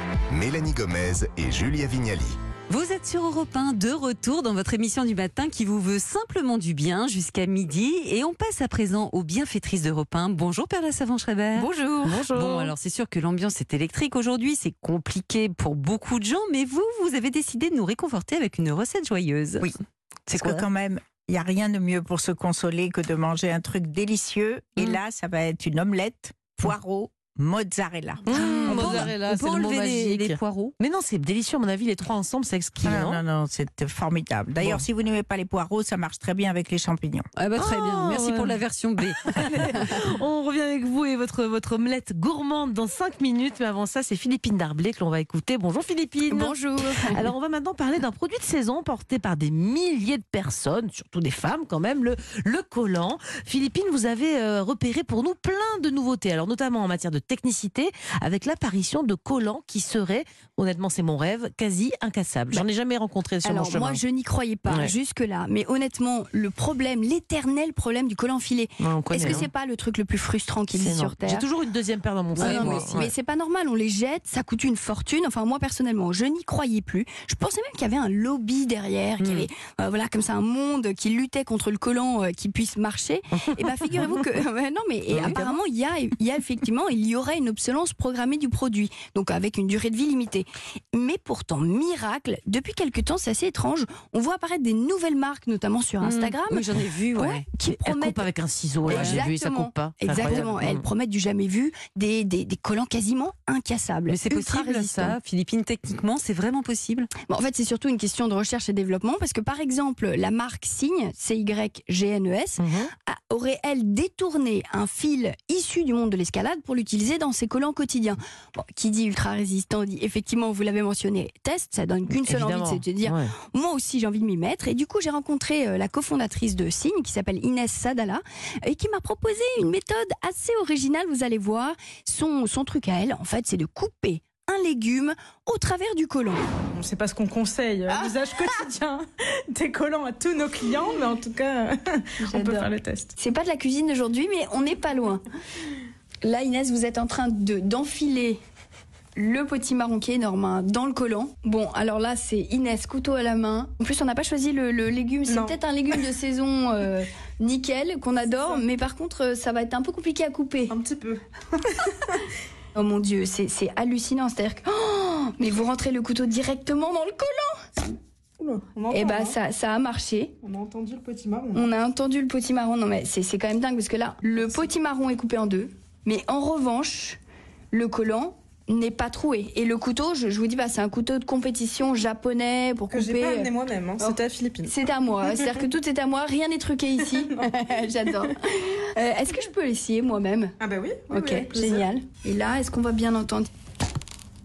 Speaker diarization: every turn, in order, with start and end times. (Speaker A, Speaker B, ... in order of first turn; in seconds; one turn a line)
Speaker A: 0.3-2.4
Speaker B: 2.7-19.7
Speaker C: 11.6-12.7
Speaker B: 20.3-20.6
Speaker D: 20.3-29.1
Speaker C: 28.2-33.2
Speaker B: 28.3-30.7
Speaker D: 32.8-37.2
Speaker B: 37.4-39.9
Speaker C: 37.6-38.6
Speaker C: 39.3-64.0
Speaker E: 46.3-47.2
Speaker E: 63.4-71.5
Speaker C: 68.8-69.5
Speaker C: 70.8-73.1
Speaker E: 72.3-98.3
Speaker B: 72.5-72.8
Speaker B: 79.2-79.4
Speaker C: 85.2-85.5
Speaker B: 96.0-97.4
Speaker C: 97.6-100.8
Speaker E: 98.8-105.2
Speaker B: 98.9-99.2
Speaker B: 104.1-107.1
Speaker E: 107.2-136.4
Speaker C: 112.6-112.9
Speaker C: 122.2-123.3
Speaker F: 136.7-143.1
Speaker E: 142.2-145.2
Speaker E: 146.2-148.4
Speaker E: 149.2-160.7
Speaker F: 155.3-156.0
Speaker F: 158.3-158.6
Speaker F: 160.7-161.7
Speaker E: 162.7-167.6
Speaker F: 168.4-169.4
Speaker E: 168.9-170.3
Speaker F: 170.4-171.7
Speaker E: 171.5-177.2
Speaker E: 177.7-190.5
Speaker F: 182.9-184.7
Speaker F: 187.3-187.6
Speaker F: 190.6-191.9
Speaker E: 191.1-193.5